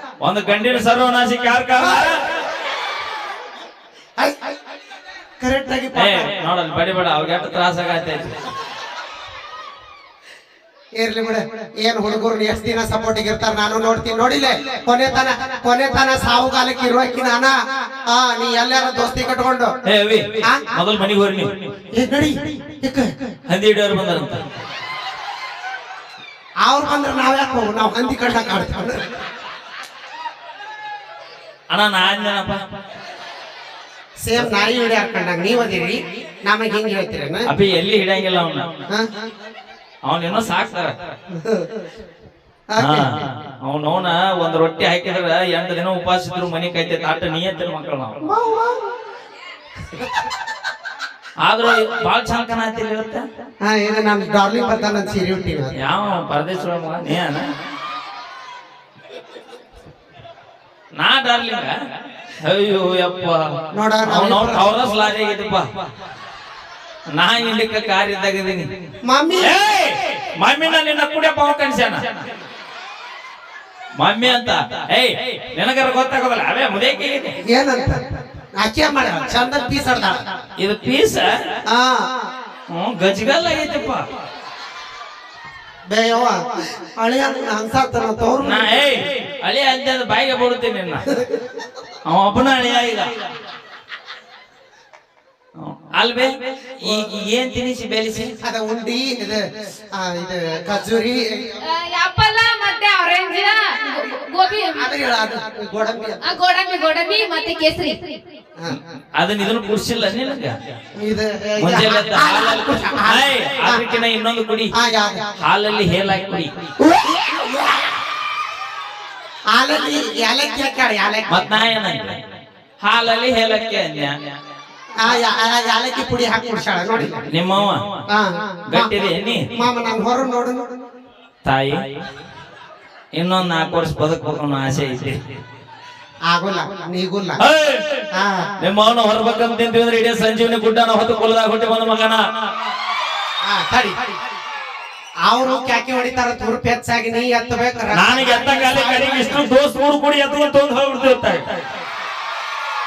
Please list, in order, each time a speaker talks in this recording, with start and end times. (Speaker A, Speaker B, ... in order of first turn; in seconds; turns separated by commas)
Speaker A: 0.2-2.2, Speaker B: 1.8-2.2, Speaker B: 4.2-4.5, Speaker B: 5.4-6.3, Speaker A: 6.0-8.3, Speaker B: 11.0-17.6, Speaker B: 18.1-19.8, Speaker A: 19.9-21.5, Speaker B: 20.4-20.7, Speaker B: 21.9-23.2, Speaker A: 23.5-24.4, Speaker B: 26.6-29.1, Speaker A: 31.7-32.6, Speaker B: 34.2-37.5, Speaker A: 37.5-38.7, Speaker A: 40.1-41.0, Speaker B: 41.4-41.7, Speaker B: 42.7-43.2, Speaker A: 42.8-48.2, Speaker B: 48.2-49.0, Speaker A: 51.4-53.2, Speaker B: 53.6-55.7, Speaker A: 55.8-57.5, Speaker A: 61.0-61.7, Speaker A: 62.4-63.4, Speaker B: 63.7-64.7, Speaker A: 64.0-65.7, Speaker A: 67.2-68.7, Speaker B: 69.1-69.6, Speaker A: 69.4-72.2, Speaker A: 74.0-77.4, Speaker B: 77.5-80.2, Speaker A: 80.6-81.3, Speaker B: 81.7-82.1, Speaker A: 82.7-84.0, Speaker B: 85.9-88.7, Speaker A: 88.4-91.1, Speaker A: 92.1-93.1, Speaker A: 95.6-98.4, Speaker B: 98.4-101.6, Speaker C: 101.6-104.9, Speaker B: 104.8-106.3, Speaker C: 106.2-108.2, Speaker A: 108.7-110.7, Speaker B: 111.0-113.8, Speaker A: 111.6-114.7, Speaker B: 114.8-115.3, Speaker A: 115.4-116.5, Speaker B: 116.8-117.8, Speaker B: 119.5-121.6, Speaker A: 121.3-122.2, Speaker A: 122.8-124.2, Speaker B: 125.0-127.2, Speaker A: 127.3-127.8, Speaker B: 128.1-128.9, Speaker A: 128.7-129.4, Speaker B: 129.6-130.8, Speaker A: 131.4-131.8, Speaker A: 133.2-135.2, Speaker B: 136.3-137.4, Speaker A: 137.4-138.0, Speaker B: 138.2-138.5, Speaker A: 138.6-142.2, Speaker B: 143.4-143.9, Speaker B: 145.2-149.4, Speaker A: 147.9-151.4